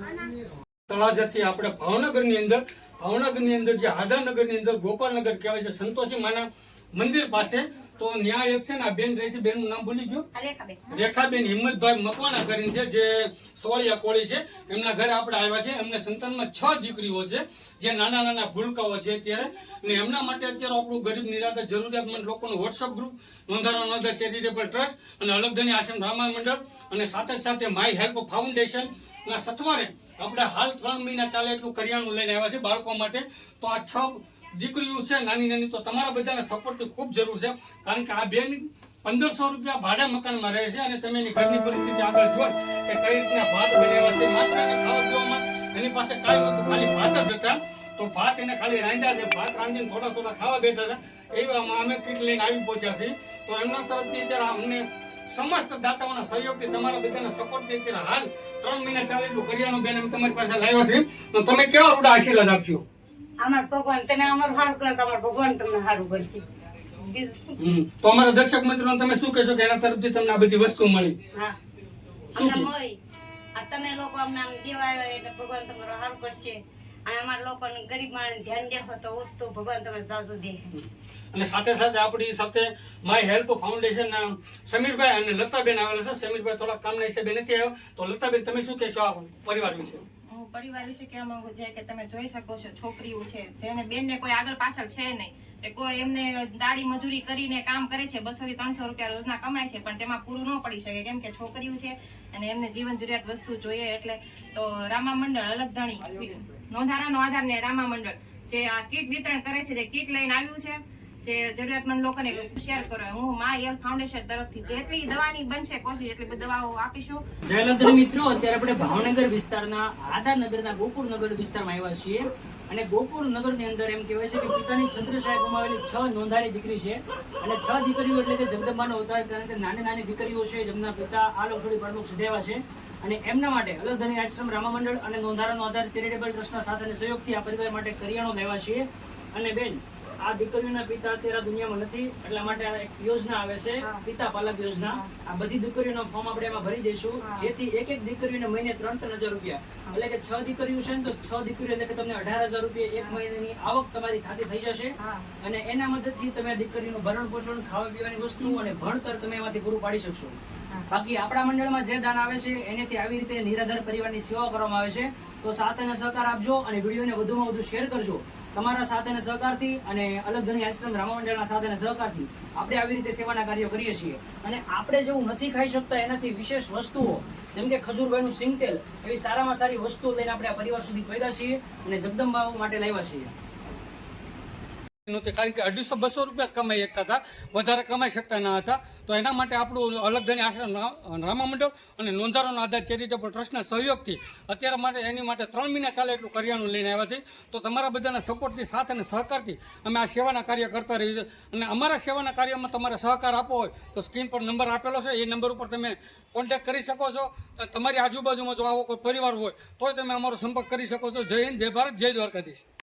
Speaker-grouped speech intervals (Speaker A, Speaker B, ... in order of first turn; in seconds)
Speaker A: 0.9-10.2, 10.9-62.8, 67.6-71.2, 72.3-72.7, 81.3-90.0, 185.1-212.6
Speaker B: 10.3-10.8, 63.4-66.4, 67.0-67.7, 72.4-73.0, 73.5-80.7
Speaker C: 90.3-117.2
Speaker D: 117.5-160.4, 160.9-183.3